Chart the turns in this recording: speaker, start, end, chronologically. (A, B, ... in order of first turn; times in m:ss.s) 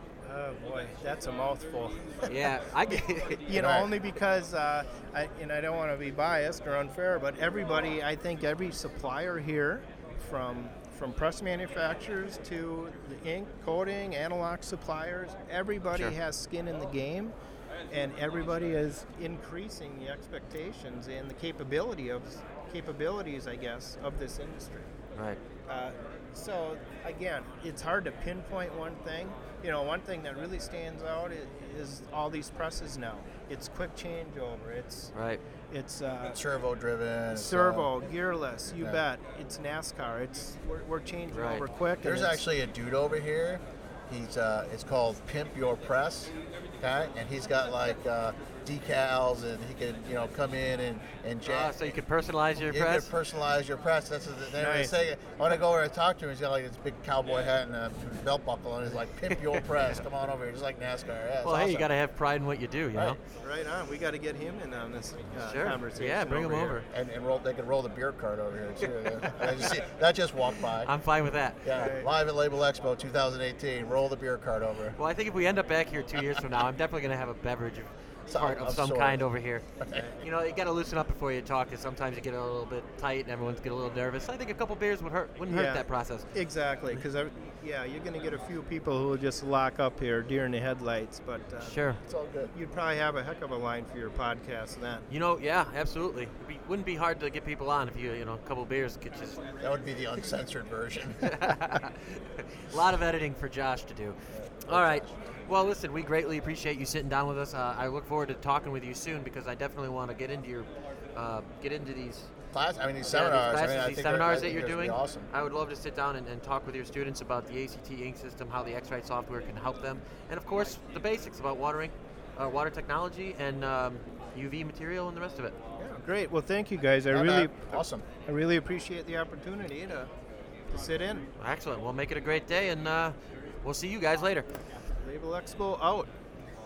0:00.2-0:03.0 A
0:02.3-0:03.8 B
0:03.5-0:17.3 A
0:03.5-0:03.9 C
0:17.9-0:24.9 A
0:25.2-0:25.4 B
0:25.7-0:35.1 A
0:35.1-0:35.4 B
0:35.7-0:36.4 A
0:36.2-0:38.0 C
0:37.3-0:42.4 A
0:38.8-0:39.0 C
0:41.3-0:41.6 B
0:42.0-0:51.9 C
0:51.5-0:53.1 B
0:52.6-1:01.9 C
0:54.6-0:55.0 A
0:59.4-1:00.0 B
1:01.4-1:03.2 B
1:03.4-1:06.8 A
1:05.4-1:06.9 B
1:06.9-1:10.9 C
1:09.2-1:09.7 B
1:10.8-1:11.8 B
1:11.6-1:15.0 C
1:11.7-1:12.1 A
1:15.0-1:26.3 B
1:18.3-1:19.3 C
1:19.8-1:20.2 C
1:25.5-1:31.8 A
1:31.6-1:32.0 B
1:32.0-1:32.5 C
1:32.5-1:35.1 A
1:35.1-1:39.4 B
1:39.6-1:41.4 C
1:41.2-1:52.3 B
1:44.3-1:45.2 C
1:52.5-1:55.3 C
1:53.0-2:05.6 B
2:05.8-2:10.1 A
2:07.1-2:08.0 C
2:10.7-2:11.3 A
2:11.4-2:14.5 B
2:15.0-2:16.1 A